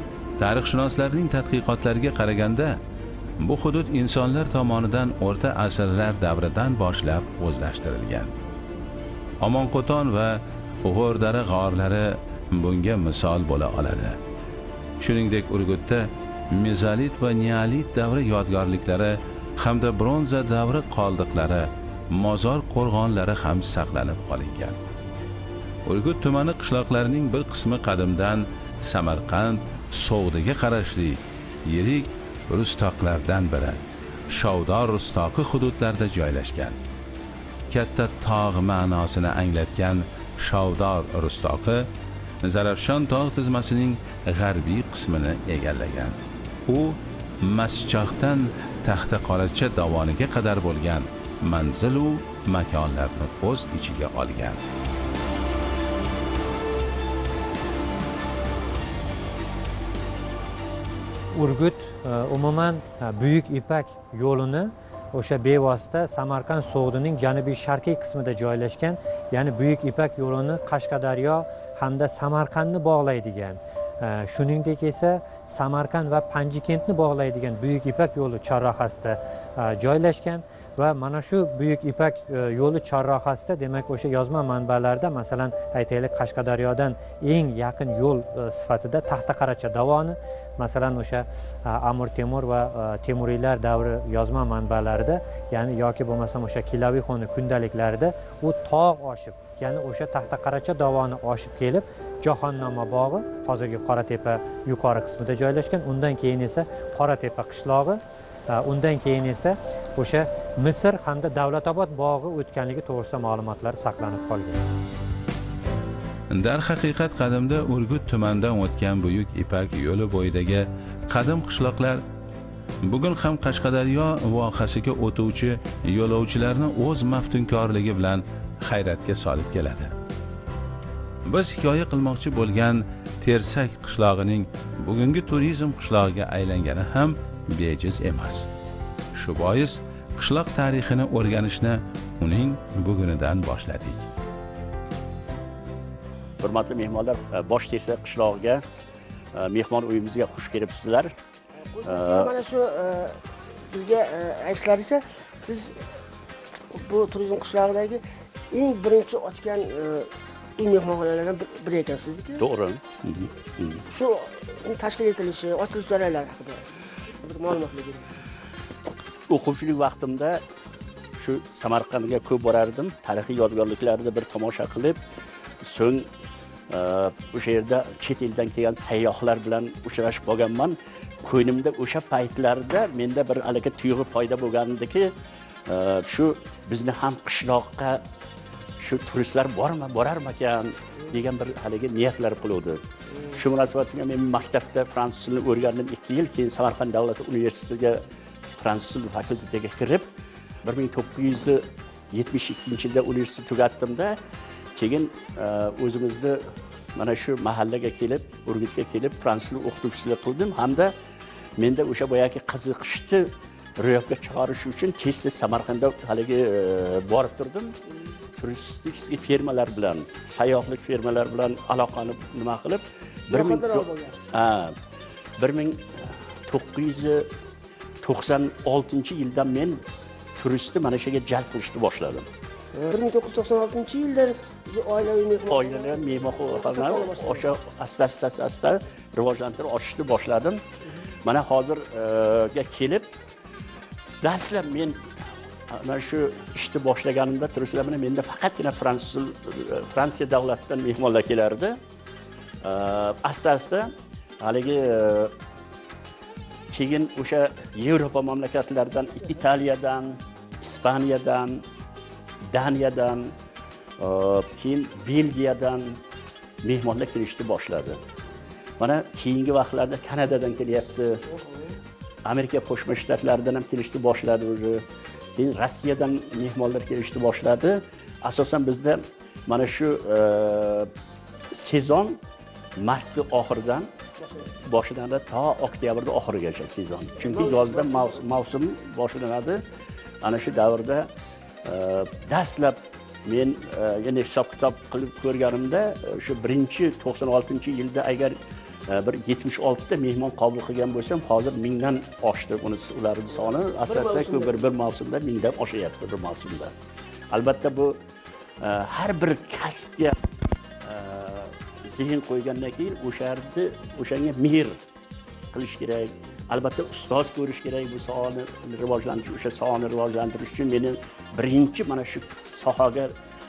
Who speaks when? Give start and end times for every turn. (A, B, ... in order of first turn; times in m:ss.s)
0:00.4-0:02.8 A
0:03.4-0:08.3 A
0:09.4-0:14.2 A
0:15.0-0:24.8 A
0:25.9-0:36.8 A
0:37.7-0:41.9 A
0:42.4-0:54.6 A
1:01.3-1:54.6 B
1:56.3-2:02.0 A
2:02.8-2:09.9 A
2:11.3-2:18.5 A
2:19.1-2:24.0 A
2:26.4-2:28.6 C
2:29.4-2:31.1 C
2:31.6-2:33.2 D
2:31.8-2:32.4 C
2:33.7-2:35.7 D
2:36.7-2:42.4 D
2:42.4-2:43.8 C
2:43.9-2:46.7 D
2:47.2-2:48.2 D
2:49.3-2:50.4 C
2:51.2-2:55.0 C
2:55.6-2:56.1 C
2:56.7-3:05.1 C
3:05.7-3:08.0 C
3:08.8-3:20.1 C
3:20.6-3:24.2 C
3:24.8-3:26.4 C
3:27.0-3:30.9 C
3:31.6-3:37.8 C
3:38.3-3:44.8 C
3:43.3-3:44.3 D
3:45.4-3:47.3 C
3:48.0-3:49.8 C
3:50.4-3:52.3 C
3:52.7-3:57.5 D
3:55.5-4:00.6 C
4:01.2-4:03.2 C
4:04.2-4:05.0 C
4:05.7-4:11.8 C
4:12.6-4:15.3 C
4:16.7-4:21.6 C
4:22.5-4:23.3 C
4:24.0-4:26.0 C
4:26.6-4:28.0 C
4:28.8-4:31.2 C
4:31.4-4:31.7 D
4:32.2-4:34.8 C
4:35.4-4:40.9 C
4:41.5-4:42.2 C
4:42.8-4:44.0 C
4:44.2-4:44.5 D
4:44.6-4:49.6 C
4:47.2-4:48.2 D
4:50.2-4:51.1 C
4:51.6-5:06.7 C
5:03.3-5:04.7 D
5:07.3-5:08.0 C
5:08.6-5:10.2 C
5:10.8-5:14.8 C
5:15.5-5:23.1 C